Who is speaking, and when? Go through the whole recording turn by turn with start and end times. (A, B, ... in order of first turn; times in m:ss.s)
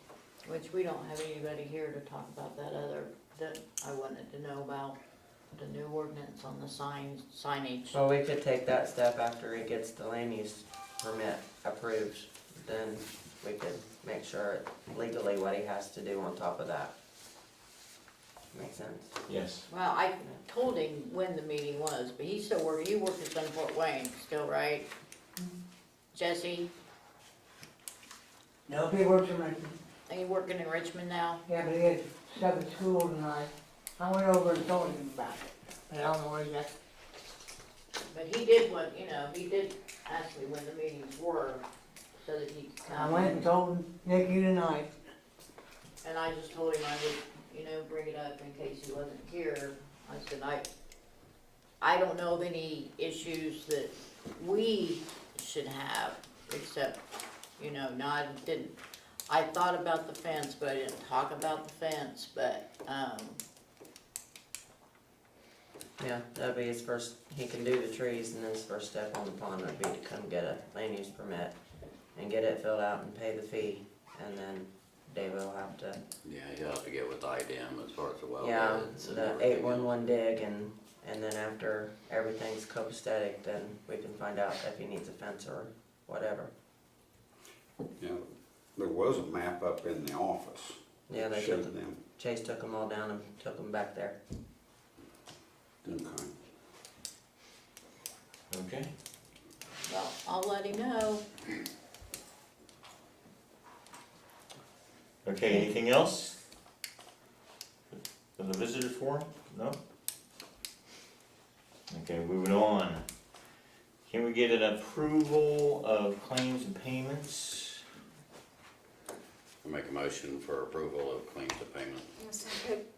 0:00.4-0:05.0 A
0:05.5-0:07.9 A
0:07.9-0:16.9 B
0:18.5-0:19.1 B
0:19.3-0:19.6 C
0:19.7-0:24.9 A
0:26.1-0:26.7 A
0:28.7-0:29.8 D
0:30.1-0:31.4 A
0:31.4-0:36.7 D
0:38.1-0:41.6 A
0:42.2-0:43.4 A
0:42.8-0:44.9 D
0:46.0-0:50.7 A
0:51.8-0:57.0 A
0:57.6-0:58.7 A
0:59.3-1:03.4 A
1:06.0-1:11.5 B
1:12.1-1:16.0 B
1:16.2-1:19.9 E
1:18.4-1:26.5 B
1:28.8-1:32.0 F
1:31.1-1:34.2 B
1:35.8-1:36.3 F
1:38.5-1:38.9 C
1:39.8-1:41.2 A
1:45.2-1:46.4 C
1:47.9-1:49.8 C
1:51.9-1:53.0 C
1:54.1-1:57.8 C
1:59.6-2:02.3 E